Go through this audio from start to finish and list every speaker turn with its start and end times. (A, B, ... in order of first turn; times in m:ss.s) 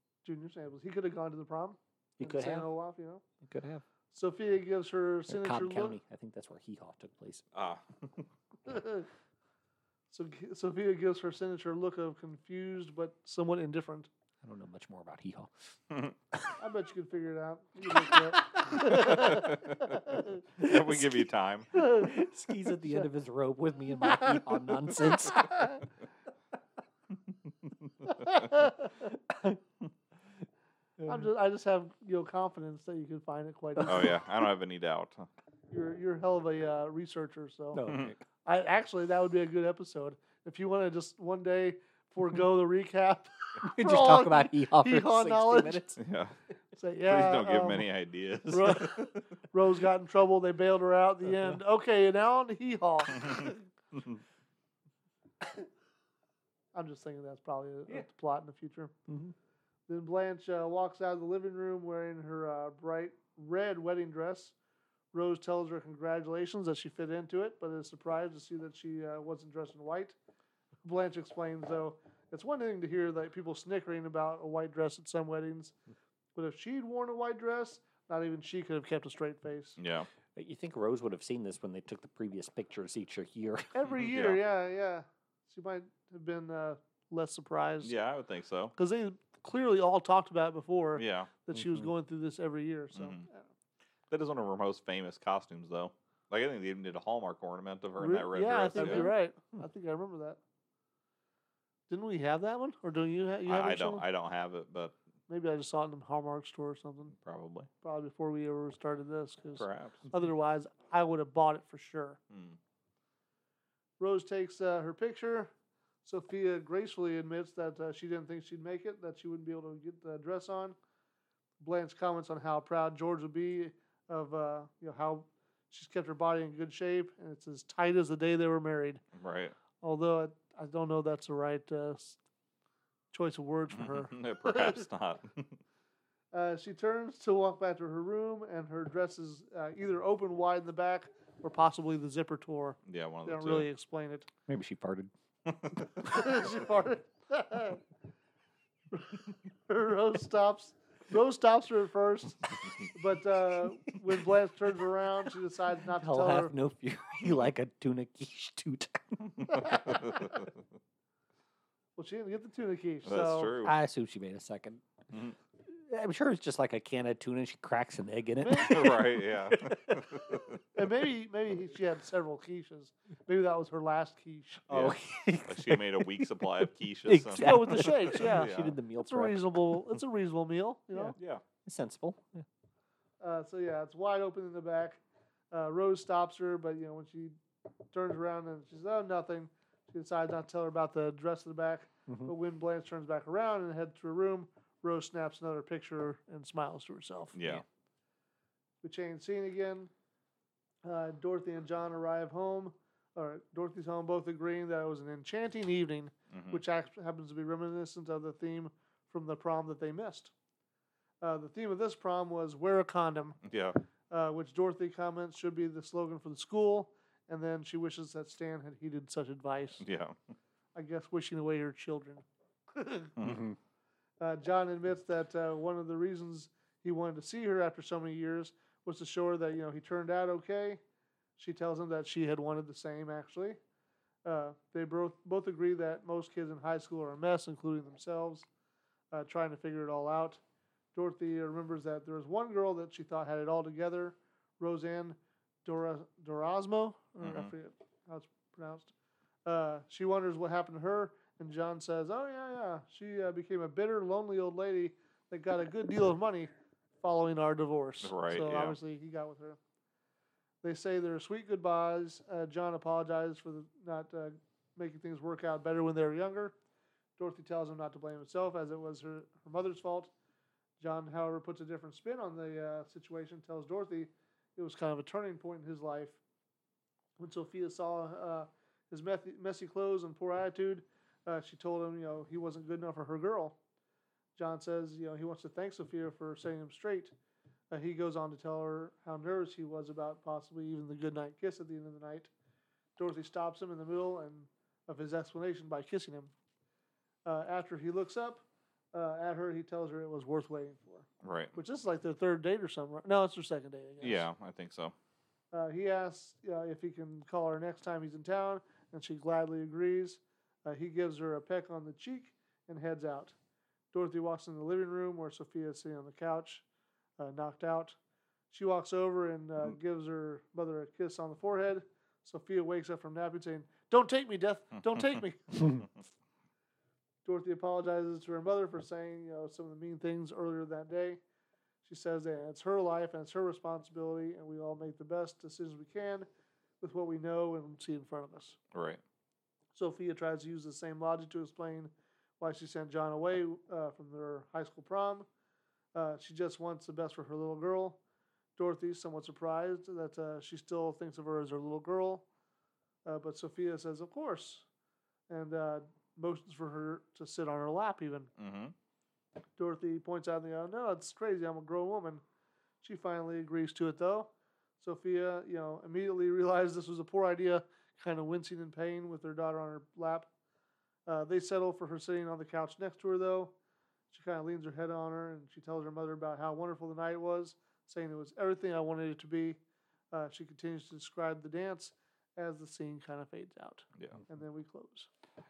0:00.2-0:03.2 A
0:02.2-0:02.7 B
0:03.4-0:03.8 B
0:04.1-0:06.0 A
0:05.3-0:07.4 B
0:07.5-0:08.3 C
0:08.6-0:09.1 A
0:10.1-0:14.1 A
0:14.4-0:15.5 B
0:16.6-0:20.4 A
0:17.9-0:19.4 B
0:18.8-0:20.0 C
0:20.6-0:21.7 C
0:20.6-0:25.7 B
0:21.7-0:23.0 A
0:24.1-0:25.8 A
0:28.2-0:28.9 A
0:29.3-0:29.6 B
0:31.0-0:31.2 B
0:31.1-0:34.2 A
0:33.8-0:35.3 C
0:35.7-0:37.9 A
0:37.7-0:38.2 B
0:37.9-0:38.1 C
0:38.4-0:46.0 A
0:43.6-0:46.0 B
0:46.0-0:46.3 C
0:46.8-0:47.8 A
0:47.0-0:49.2 C
0:48.5-0:53.6 A
0:53.1-0:54.2 C
0:56.7-0:58.9 A
0:59.1-0:59.3 B
0:59.9-1:04.5 A
1:05.1-1:10.2 A
1:10.8-1:15.7 A
1:16.4-1:19.8 A
1:19.8-1:20.1 C
1:20.3-1:23.8 B
1:23.7-1:27.9 A
1:24.0-1:24.4 C
1:27.8-1:28.7 C
1:28.8-1:33.5 A
1:31.0-1:31.3 C
1:31.6-1:31.8 B
1:32.9-1:33.2 C
1:34.1-1:39.1 C
1:38.0-1:40.4 A
1:38.8-1:39.1 B
1:41.9-1:44.0 A
1:43.4-1:45.0 C
1:45.3-1:47.1 A
1:47.1-1:47.7 C
1:47.8-1:52.2 A
1:49.6-1:50.1 C
1:52.3-1:52.6 C
1:54.0-1:55.5 A
1:56.0-2:00.8 A
2:01.6-2:09.0 A
2:09.1-2:09.5 C
2:09.8-2:12.2 A
2:13.1-2:14.8 A
2:13.7-2:15.6 C
2:16.3-2:24.3 A
2:22.9-2:23.7 C
2:24.5-2:25.1 B
2:25.4-2:26.1 C
2:26.0-2:27.8 A
2:28.9-2:36.5 A
2:35.9-2:40.0 B
2:39.5-2:40.5 C
2:39.5-2:40.4 A
2:42.0-2:43.6 A
2:43.0-2:43.7 C
2:43.6-2:44.8 B
2:45.6-2:50.4 B
2:48.4-2:49.0 A
2:48.6-2:50.6 C
2:50.7-2:54.7 A
2:54.7-2:56.3 B
2:54.7-2:58.7 C
2:57.1-2:59.8 B
2:57.4-3:01.2 A
3:00.9-3:02.4 B
3:01.2-3:01.4 C
3:03.2-3:05.0 A
3:05.5-3:07.4 A
3:07.9-3:17.4 A
3:17.3-3:17.6 C
3:18.8-3:19.9 A
3:20.8-3:30.3 A
3:26.3-3:26.6 C
3:31.2-3:33.4 A
3:33.4-3:33.8 C
3:34.1-3:39.8 A
3:39.8-3:40.2 C
3:40.7-3:43.1 A
3:43.2-3:43.5 C
3:43.2-3:43.6 B
3:44.2-3:50.8 A
3:51.4-3:53.6 A
3:54.2-3:58.5 A
3:59.1-4:00.4 A
4:00.9-4:08.9 A
4:07.2-4:07.5 C
4:09.4-4:19.6 A
4:18.0-4:18.8 C
4:20.6-4:26.6 A
4:27.2-4:30.1 A
4:30.8-4:36.2 A
4:37.2-4:43.6 A
4:44.4-4:47.1 A
4:47.7-4:52.3 A
4:53.0-4:56.3 A
4:57.2-4:58.4 A
4:58.9-5:04.2 A
5:01.2-5:01.5 C
5:04.0-5:04.9 C
5:05.5-5:13.3 A
5:13.9-5:16.6 A
5:17.2-5:18.0 A
5:18.5-5:25.9 A
5:24.9-5:25.2 C
5:27.2-5:31.2 A
5:31.8-5:36.3 A
5:36.8-5:38.6 A
5:38.7-5:39.0 C
5:39.7-5:45.3 A
5:45.9-5:48.0 A
5:48.6-5:52.2 A
5:53.0-5:54.6 A
5:55.3-5:58.3 A
5:58.4-5:58.7 C
5:59.6-6:02.2 A
6:02.8-6:10.3 A
6:11.1-6:13.5 A
6:14.1-6:19.6 A
6:20.1-6:25.1 A